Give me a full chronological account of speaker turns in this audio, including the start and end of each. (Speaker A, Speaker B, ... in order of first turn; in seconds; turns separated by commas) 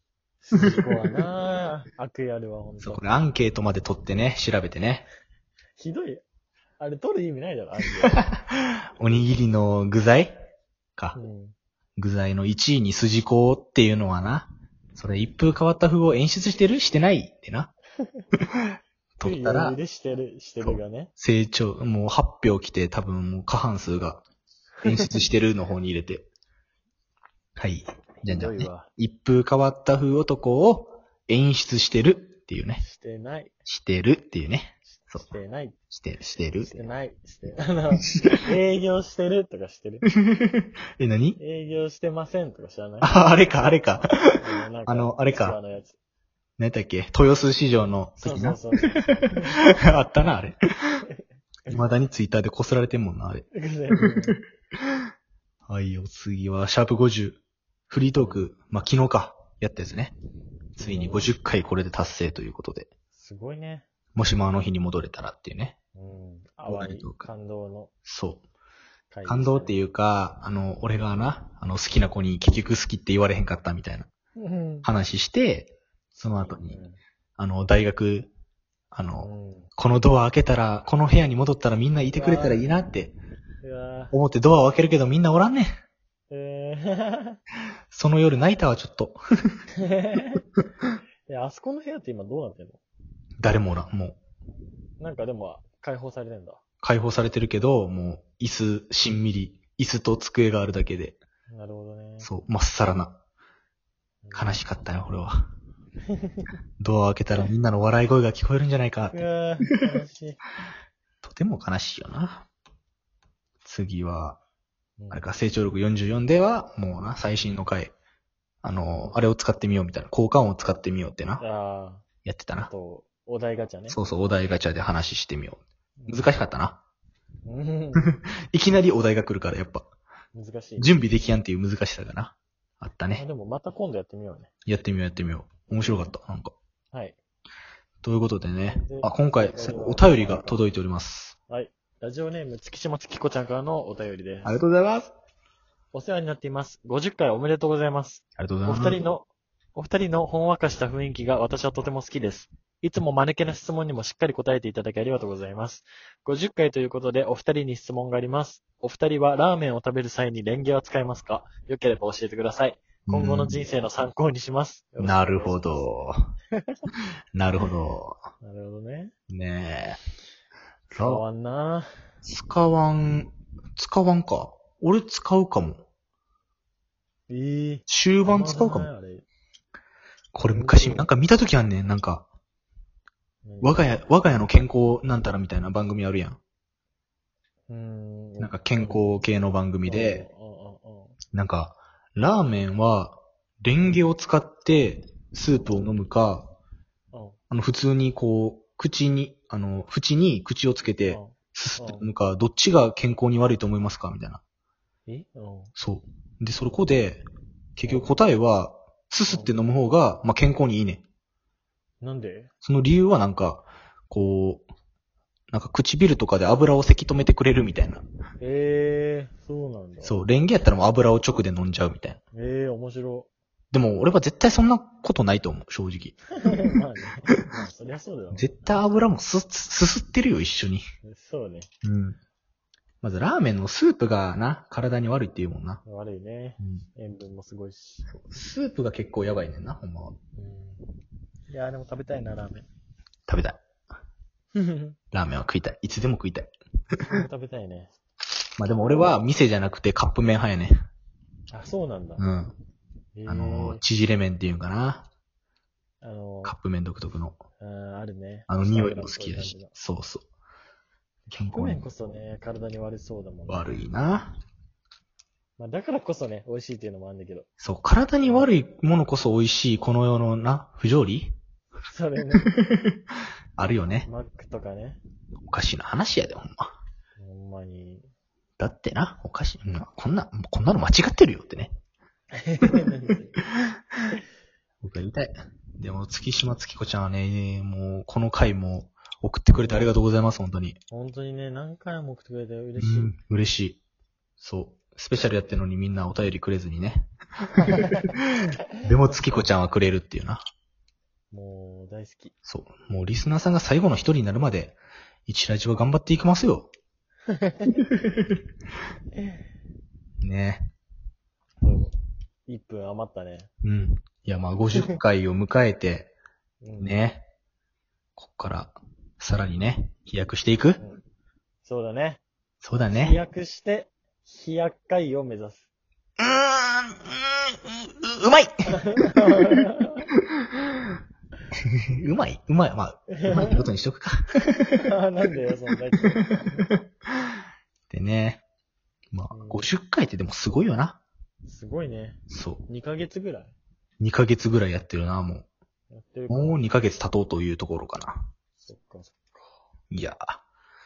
Speaker A: 0.4-3.0, Speaker B: 2.8-5.0, Speaker A: 5.8-6.2, Speaker A: 6.8-8.2, Speaker B: 8.3-10.3, Speaker A: 9.0-9.2, Speaker A: 11.1-11.5, Speaker B: 12.0-17.7, Speaker B: 19.2-19.8, Speaker A: 19.2-21.1, Speaker B: 20.6-24.2, Speaker A: 24.8-25.1, Speaker B: 24.8-26.2, Speaker B: 27.6-32.8, Speaker A: 28.2-28.9, Speaker A: 32.8-33.5, Speaker B: 33.6-35.2, Speaker A: 34.9-35.8, Speaker B: 35.9-36.8, Speaker A: 36.6-40.0, Speaker B: 40.2-41.4, Speaker A: 41.4-43.2, Speaker B: 43.0-44.2, Speaker A: 44.2-46.0, Speaker B: 44.9-45.6, Speaker B: 46.6-49.1, Speaker A: 48.2-49.6, Speaker B: 49.7-50.6, Speaker B: 51.7-53.5, Speaker A: 53.5-54.4, Speaker B: 55.7-60.1, Speaker A: 58.1-58.4, Speaker B: 60.8-62.9, Speaker A: 60.8-61.3, Speaker A: 63.1-63.9, Speaker B: 64.1-65.8, Speaker A: 65.9-67.9, Speaker B: 66.7-67.2, Speaker B: 68.0-68.4, Speaker A: 69.1-69.8, Speaker B: 69.2-74.1, Speaker A: 74.3-74.9, Speaker B: 74.8-76.8, Speaker A: 76.2-77.0, Speaker B: 77.4-78.3, Speaker B: 78.9-83.2, Speaker A: 79.2-79.7, Speaker A: 82.1-82.7, Speaker A: 83.6-84.1, Speaker B: 84.1-85.7, Speaker A: 86.3-87.4, Speaker B: 87.9-89.2, Speaker A: 89.8-90.4, Speaker A: 91.3-92.8, Speaker B: 93.4-94.2, Speaker A: 95.0-96.6, Speaker B: 96.8-101.2, Speaker A: 101.5-102.3, Speaker B: 102.2-103.2, Speaker A: 104.2-104.6, Speaker B: 104.3-105.3, Speaker A: 106.1-106.5, Speaker B: 106.8-109.2, Speaker A: 109.1-110.4, Speaker B: 111.2-112.5, Speaker B: 113.6-114.4, Speaker A: 115.0-115.3, Speaker B: 115.1-117.9, Speaker B: 118.6-121.4, Speaker A: 121.4-122.0, Speaker B: 122.2-122.7, Speaker A: 122.6-124.0, Speaker B: 123.9-126.8, Speaker A: 126.0-126.3, Speaker A: 127.5-128.2, Speaker B: 128.0-129.8, Speaker A: 130.3-130.9, Speaker B: 130.8-133.2, Speaker A: 133.1-134.5, Speaker B: 134.7-136.5, Speaker A: 136.9-137.2, Speaker B: 138.0-141.3, Speaker A: 138.7-140.6, Speaker A: 141.5-144.5, Speaker B: 144.4-145.1, Speaker A: 145.9-165.9, Speaker B: 148.4-149.0, Speaker B: 163.1-163.6, Speaker B: 165.0-166.2, Speaker B: 167.3-168.2, Speaker A: 168.4-169.1, Speaker B: 169.3-170.0, Speaker B: 170.9-171.2, Speaker A: 171.0-171.9, Speaker B: 172.2-175.8, Speaker A: 177.3-179.2, Speaker B: 177.9-178.9, Speaker B: 180.3-182.2, Speaker A: 180.5-181.1, Speaker A: 183.4-183.9, Speaker B: 183.6-186.4, Speaker A: 187.7-189.1, Speaker B: 188.4-190.3, Speaker A: 189.8-191.2, Speaker B: 191.3-196.5, Speaker A: 197.1-197.4, Speaker B: 197.5-204.4, Speaker A: 201.1-202.1, Speaker A: 205.1-205.7, Speaker B: 205.8-207.2, Speaker B: 207.8-211.0, Speaker A: 212.0-212.5, Speaker B: 212.6-214.6, Speaker B: 215.5-218.0, Speaker A: 218.4-220.2, Speaker B: 220.0-222.2, Speaker A: 222.3-223.3, Speaker B: 223.7-226.3, Speaker A: 226.4-228.5, Speaker B: 228.3-230.8, Speaker A: 231.0-231.7, Speaker B: 231.8-232.2, Speaker B: 233.0-235.8, Speaker A: 235.8-238.1, Speaker B: 238.1-240.2, Speaker A: 240.3-240.9, Speaker A: 241.5-242.7, Speaker B: 243.3-243.6, Speaker A: 244.5-245.0, Speaker B: 245.1-246.5, Speaker A: 247.0-247.9, Speaker B: 248.6-250.7, Speaker A: 251.5-252.2, Speaker B: 252.2-252.5, Speaker A: 253.1-253.8, Speaker B: 253.2-255.1, Speaker A: 256.0-256.6, Speaker B: 256.4-257.4, Speaker A: 257.6-259.7, Speaker B: 258.5-260.2, Speaker B: 261.3-261.8, Speaker A: 261.4-263.7, Speaker B: 263.5-264.4, Speaker A: 265.6-267.5, Speaker B: 267.6-271.3, Speaker A: 268.2-268.5, Speaker A: 271.9-272.5, Speaker B: 272.6-272.9, Speaker B: 273.6-274.1, Speaker A: 274.0-275.0, Speaker B: 275.4-276.7, Speaker A: 277.2-278.1, Speaker B: 278.6-281.7, Speaker A: 282.3-283.4, Speaker B: 284.8-290.8, Speaker A: 290.9-293.1, Speaker B: 292.8-293.8, Speaker B: 294.4-297.9, Speaker B: 298.8-300.4, Speaker A: 301.3-302.3, Speaker B: 302.4-306.7, Speaker A: 307.4-307.8, Speaker A: 309.1-309.4, Speaker B: 310.2-310.7, Speaker A: 311.6-311.9, Speaker A: 312.5-313.5, Speaker B: 313.6-316.1, Speaker A: 316.6-317.0, Speaker B: 316.8-317.2, Speaker B: 318.2-320.8, Speaker A: 321.6-322.2, Speaker B: 322.6-323.2, Speaker A: 322.9-325.7, Speaker B: 326.2-328.8, Speaker A: 328.7-330.1, Speaker B: 332.0-334.8, Speaker A: 333.1-333.7, Speaker A: 334.7-336.7, Speaker B: 337.9-338.4, Speaker B: 339.1-341.0, Speaker A: 339.3-339.7, Speaker A: 341.5-343.5, Speaker B: 342.3-342.6, Speaker B: 344.0-345.4, Speaker A: 345.9-346.6, Speaker B: 346.3-348.3, Speaker A: 348.6-349.6, Speaker B: 349.9-350.4